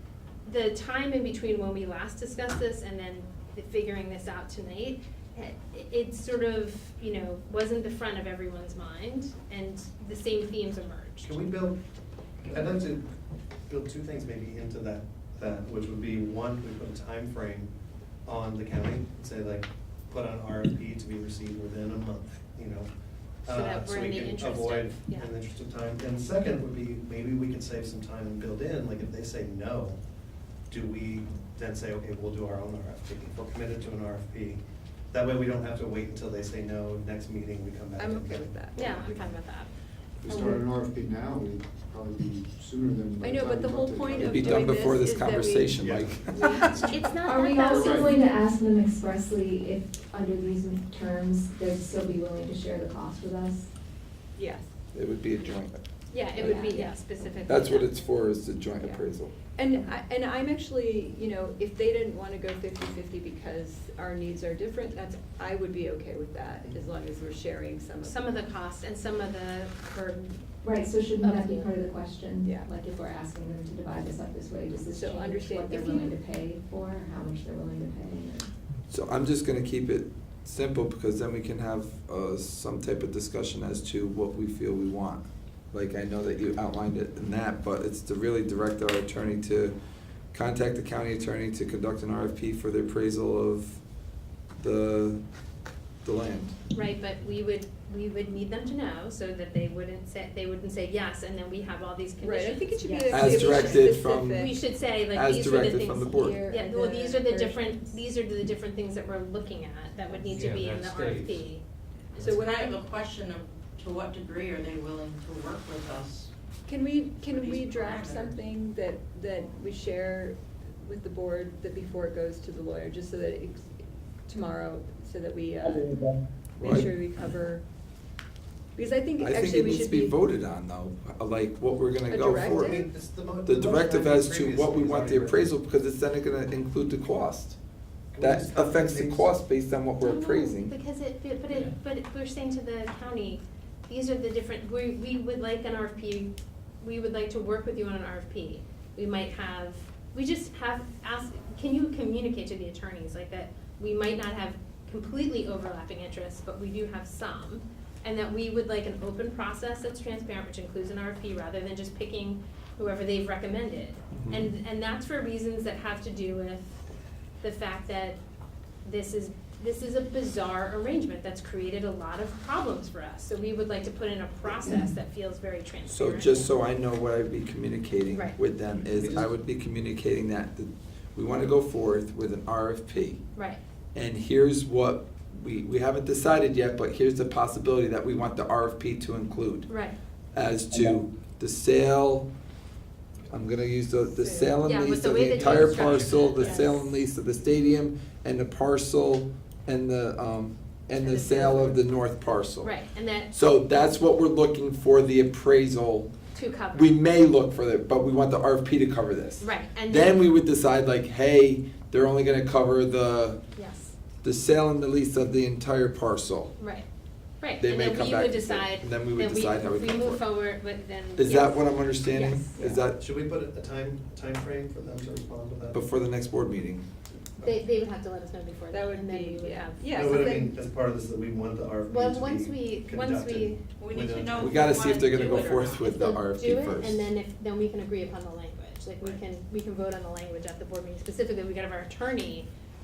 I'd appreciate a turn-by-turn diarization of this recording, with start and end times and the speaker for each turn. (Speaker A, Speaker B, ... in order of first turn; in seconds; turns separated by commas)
Speaker A: 0.5-11.3, Speaker B: 11.2-11.8, Speaker B: 12.4-13.1, Speaker B: 13.7-17.7, Speaker B: 18.2-22.9, Speaker B: 23.4-30.0, Speaker A: 23.5-25.3, Speaker B: 30.7-39.2, Speaker C: 38.0-38.9, Speaker A: 38.7-39.7, Speaker D: 40.2-44.8, Speaker E: 40.3-40.6, Speaker C: 43.2-45.7, Speaker F: 44.3-46.9, Speaker B: 45.8-46.3, Speaker C: 46.3-46.9, Speaker A: 46.9-48.2, Speaker E: 47.2-53.7, Speaker D: 47.7-48.1, Speaker C: 54.4-54.7, Speaker F: 54.9-55.8, Speaker A: 56.1-57.9, Speaker C: 56.4-57.0, Speaker E: 56.4-56.8, Speaker F: 57.5-59.3, Speaker C: 59.5-68.4, Speaker A: 68.0-70.4, Speaker E: 70.6-78.5, Speaker A: 71.2-71.7, Speaker C: 72.4-72.7, Speaker C: 74.9-76.2, Speaker F: 78.9-89.7, Speaker F: 90.3-93.8, Speaker F: 94.6-95.2, Speaker F: 96.0-96.5, Speaker A: 96.7-111.6, Speaker C: 102.2-104.6, Speaker F: 103.1-104.5, Speaker F: 105.1-106.4, Speaker C: 106.2-107.8, Speaker B: 110.3-111.3, Speaker G: 112.1-116.3, Speaker C: 116.7-126.0, Speaker G: 117.3-118.4, Speaker C: 126.6-127.6, Speaker F: 126.6-126.9, Speaker C: 128.8-130.2, Speaker F: 129.2-132.8, Speaker C: 132.1-132.9, Speaker B: 132.3-135.5, Speaker F: 133.4-137.6, Speaker B: 138.1-139.3, Speaker F: 138.2-140.7, Speaker A: 140.0-166.8, Speaker B: 164.1-164.5, Speaker A: 167.4-168.2, Speaker A: 168.8-176.5, Speaker F: 175.9-183.2, Speaker A: 178.1-178.3, Speaker B: 178.9-179.3, Speaker F: 183.9-189.7, Speaker A: 189.7-189.9, Speaker F: 190.3-192.3, Speaker F: 193.3-202.7, Speaker C: 194.2-194.5, Speaker A: 194.6-196.9, Speaker A: 201.0-201.8, Speaker A: 202.6-203.3, Speaker F: 203.3-206.1, Speaker A: 206.3-206.9, Speaker F: 206.7-213.4, Speaker A: 209.4-210.2, Speaker A: 213.6-213.9, Speaker F: 214.2-216.5, Speaker A: 216.6-216.8, Speaker A: 217.4-221.7, Speaker F: 217.6-220.2, Speaker F: 221.2-223.0, Speaker C: 222.1-222.8, Speaker B: 223.0-225.8, Speaker F: 225.7-226.8, Speaker A: 227.4-230.3, Speaker C: 228.7-230.6, Speaker B: 229.9-234.7, Speaker A: 231.9-233.6, Speaker G: 233.8-236.0, Speaker F: 234.4-237.1, Speaker A: 235.8-242.5